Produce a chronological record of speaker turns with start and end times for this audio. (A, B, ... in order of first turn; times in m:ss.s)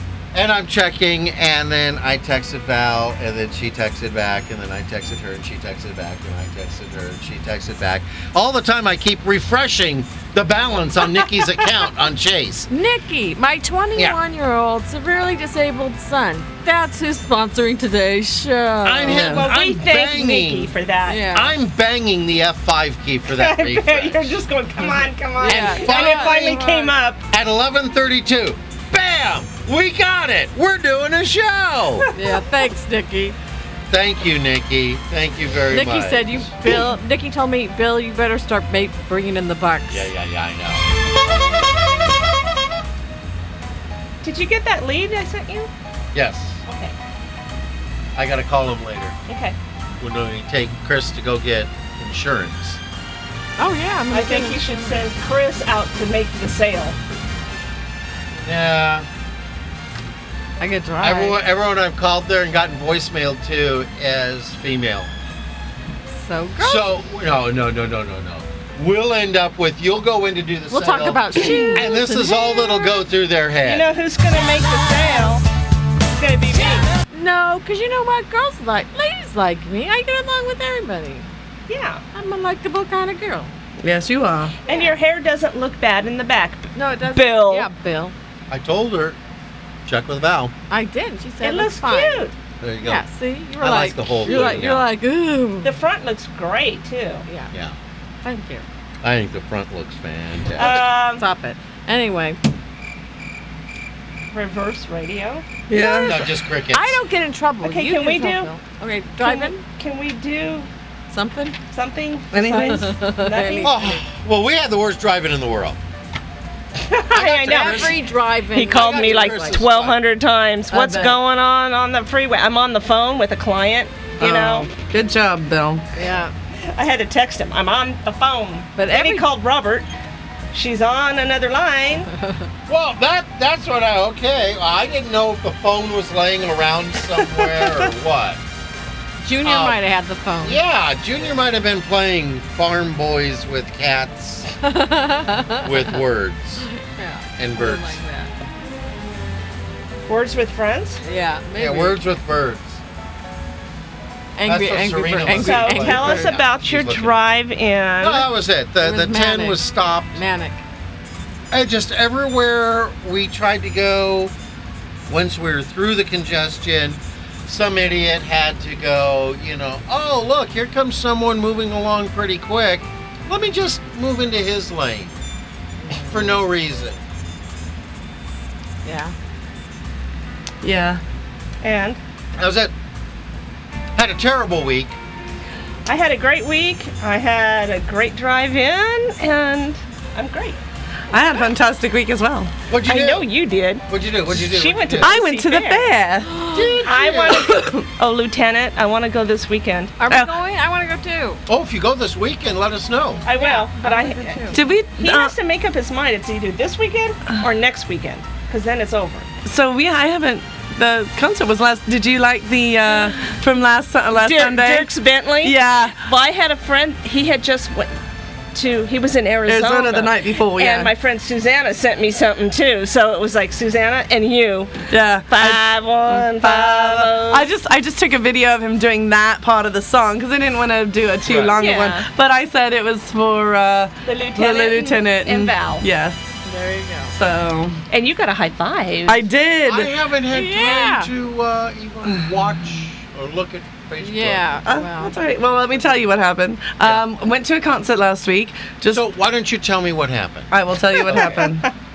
0:00.3-0:12.7 A
0:12.7-0:19.2 B
0:18.8-0:20.7 A
0:19.1-0:19.5 C
0:19.1-0:21.2 D
0:21.1-0:21.5 B
0:21.3-0:24.3 A
0:23.3-0:27.2 D
0:24.9-0:26.9 B
0:25.4-0:26.6 A
0:27.3-0:32.1 A
0:32.1-0:33.4 B
0:33.9-0:36.5 A
0:35.7-0:40.1 B
0:39.9-0:40.8 A
0:44.2-0:45.7 D
0:46.1-0:46.6 A
0:46.7-0:46.9 D
0:48.2-0:49.2 A
0:49.3-0:49.6 D
0:50.0-0:52.8 A
0:53.6-0:54.6 B
0:54.1-0:57.0 D
0:58.4-0:59.0 A
1:00.6-1:01.4 B
1:01.0-1:05.1 A
1:06.1-1:07.0 B
1:06.6-1:13.9 A
1:10.7-1:12.9 B
1:11.5-1:11.8 D
1:13.6-1:15.4 D
1:16.1-1:16.9 D
1:17.1-1:21.3 B
1:21.7-1:22.0 D
1:22.1-1:23.5 B
1:23.8-1:24.5 C
1:24.6-1:27.7 D
1:24.7-1:25.0 B
1:26.7-1:28.1 B
1:28.5-1:29.2 A
1:29.8-1:30.5 A
1:30.7-1:32.3 B
1:31.4-1:32.3 D
1:32.6-1:33.0 A
1:32.8-1:35.7 B
1:33.6-1:34.8 A
1:34.2-1:34.6 D
1:35.6-1:37.2 D
1:38.2-1:38.6 B
1:39.0-1:40.9 A
1:40.6-1:41.2 D
1:40.6-1:42.4 B
1:44.3-1:45.4 D
1:45.7-1:46.2 C
1:45.7-1:49.6 B
1:46.0-1:47.0 A
1:47.6-1:48.5 D
1:49.2-1:50.7 D
1:51.1-1:51.6 B
1:51.7-1:53.8 D
1:52.3-1:52.9 C
1:52.5-1:54.0 B
1:53.6-1:55.8 A
1:56.8-2:04.7 D
1:57.1-1:59.6 B
1:57.2-1:58.0 A
1:58.6-2:00.0 A
2:00.7-2:01.1 B
2:04.2-2:05.8 C
2:05.9-2:06.3 B
2:06.7-2:09.9 D
2:08.8-2:09.3 B
2:10.5-2:12.1 D
2:12.7-2:18.4 A
2:17.2-2:17.8 D
2:19.2-2:20.6 B
2:19.4-2:19.8 A
2:20.4-2:24.5 A
2:24.6-2:26.0 B
2:25.6-2:26.6 A
2:26.6-2:28.3 B
2:27.4-2:28.0 A
2:30.1-2:31.0 D
2:31.0-2:32.0 B
2:31.6-2:32.8 A
2:34.4-2:36.4 B
2:34.4-2:37.2 A
2:35.3-2:38.3 D
2:38.0-2:40.2 A
2:38.8-2:40.6 B
2:41.5-2:44.3 A
2:45.1-2:55.1 A
2:55.8-2:56.4 B
2:56.0-2:57.0 A
2:58.8-2:59.1 B
3:00.6-3:01.0 C
3:01.6-3:02.0 D
3:02.4-3:02.7 A
3:03.9-3:05.0 A
3:05.8-3:10.6 D
3:11.1-3:12.5 C
3:12.7-3:13.3 A
3:12.8-3:15.9 D
3:13.9-3:15.1 A
3:15.0-3:16.3 C
3:16.3-3:16.8 B
3:16.5-3:17.6 A
3:16.8-3:19.9 D
3:17.5-3:17.8 C
3:20.0-3:21.4 B
3:21.5-3:23.2 A
3:23.2-3:29.2 D
3:23.3-3:24.6 B
3:24.5-3:25.3 C
3:29.4-3:34.9 C
3:34.1-3:37.9 D
3:35.4-3:36.0 C
3:38.5-3:47.5 D
3:39.5-3:40.9 C
3:44.9-3:56.4 C
3:51.2-3:51.6 A
3:51.6-3:52.0 D
3:54.0-3:55.8 D
3:56.4-3:57.1 B
3:57.1-3:57.8 C
3:57.9-3:59.2 D
3:59.1-3:59.9 C
3:59.6-4:04.6 A
4:00.3-4:01.1 B
4:02.0-4:02.3 C
4:04.0-4:05.1 B
4:04.6-4:09.0 C
4:08.9-4:11.4 A
4:10.5-4:11.6 C
4:11.2-4:11.4 D